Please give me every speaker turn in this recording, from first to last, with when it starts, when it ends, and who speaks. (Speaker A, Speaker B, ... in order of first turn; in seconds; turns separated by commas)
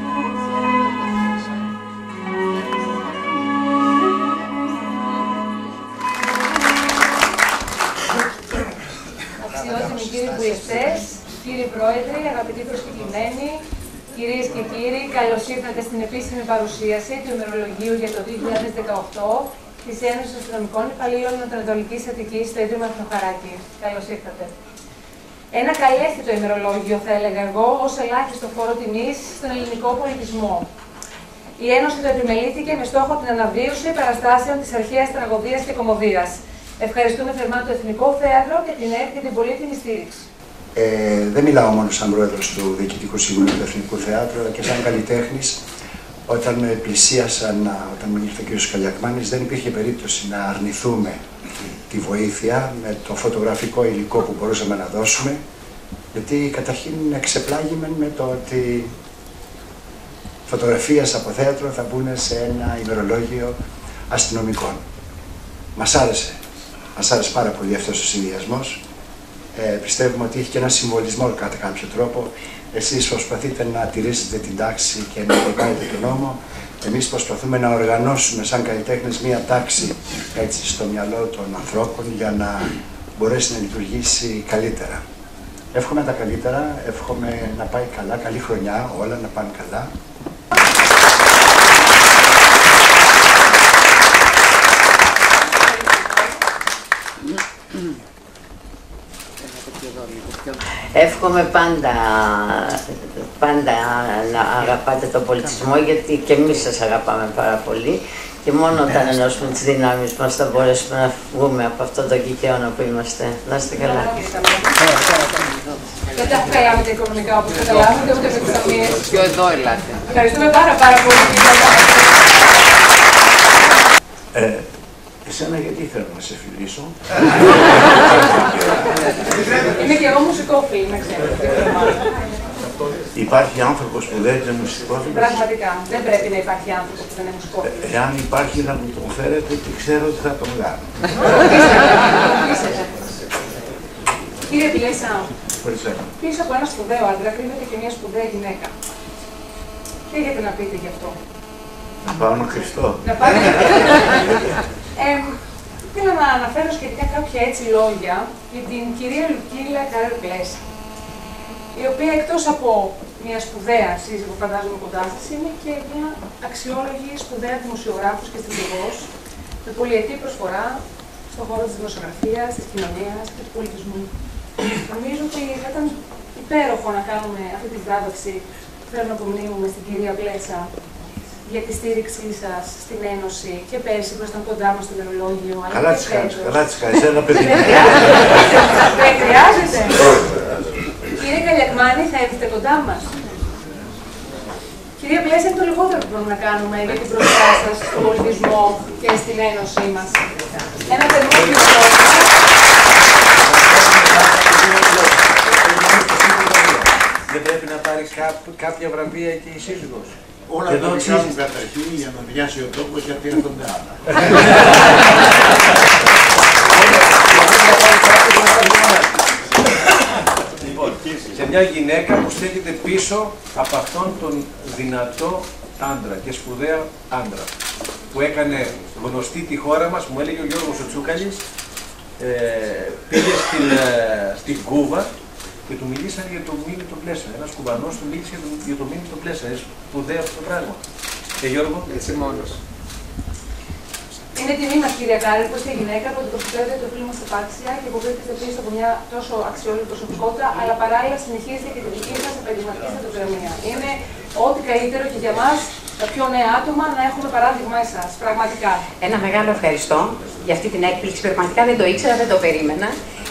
Speaker A: 9.4-24.5, Speaker A: 25.5-30.7, Speaker A: 31.6-40.3, Speaker B: 40.8-45.6, Speaker B: 46.3-51.2, Speaker B: 51.9-55.4, Speaker B: 56.1-58.9, Speaker B: 60.5-63.6, Speaker B: 64.1-64.8, Speaker B: 65.8-66.4, Speaker B: 67.0-68.8, Speaker B: 69.5-85.0, Speaker B: 85.7-89.9, Speaker A: 95.6-96.3, Speaker C: 100.9-114.2, Speaker A: 113.7-114.8, Speaker A: 116.1-119.4, Speaker A: 120.1-122.3, Speaker D: 124.3-124.7, Speaker D: 125.2-128.9, Speaker A: 129.5-132.2, Speaker D: 133.1-135.4, Speaker A: 135.1-137.9, Speaker D: 137.6-140.9, Speaker A: 141.2-142.9, Speaker A: 144.5-145.3, Speaker D: 145.6-146.1, Speaker A: 146.2-148.7, Speaker A: 150.1-151.2, Speaker D: 152.1-153.5, Speaker A: 153.0-154.4, Speaker A: 155.0-160.6, Speaker A: 161.8-169.1, Speaker A: 169.7-174.1, Speaker A: 174.6-180.7, Speaker A: 181.4-186.7, Speaker D: 185.7-188.8, Speaker A: 187.2-190.1, Speaker A: 191.2-193.1, Speaker A: 195.0-200.3, Speaker A: 200.9-202.3, Speaker E: 203.4-210.1, Speaker D: 210.5-214.4, Speaker E: 210.7-211.4, Speaker E: 214.2-214.8, Speaker E: 216.7-219.1, Speaker E: 221.3-227.5, Speaker E: 228.1-231.4, Speaker E: 232.2-235.1, Speaker E: 235.7-240.8, Speaker E: 241.4-242.4, Speaker A: 244.3-258.9, Speaker F: 259.0-263.0